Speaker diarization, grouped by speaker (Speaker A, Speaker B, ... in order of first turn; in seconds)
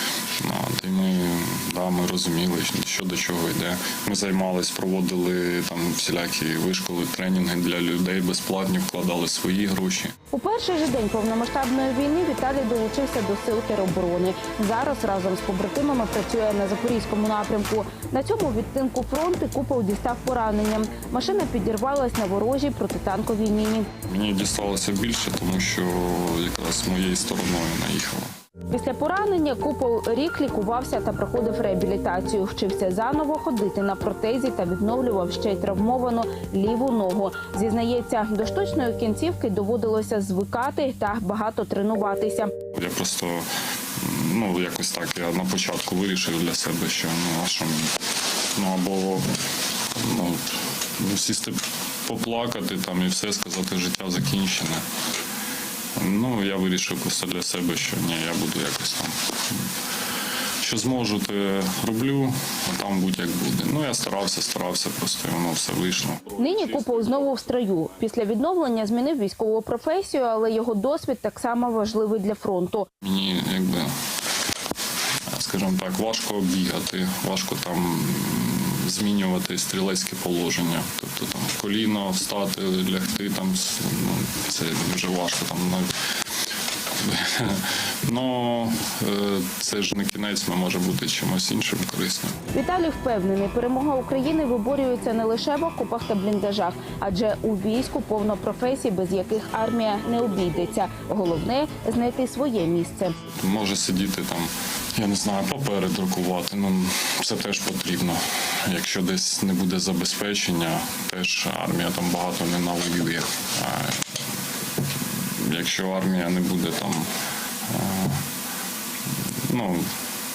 Speaker A: 0.4-10.1, 24.1-28.3, 42.7-43.5, 44.0-48.0, 48.5-49.3, 49.9-54.8, 56.0-59.6, 60.6-66.4, 73.0-73.9, 75.3-85.9, 87.0-92.3, 103.4-114.1, 115.4-117.1, 117.7-118.2, 119.5-119.9
Speaker B: 10.3-23.9, 28.7-42.5, 66.4-72.9, 92.5-103.2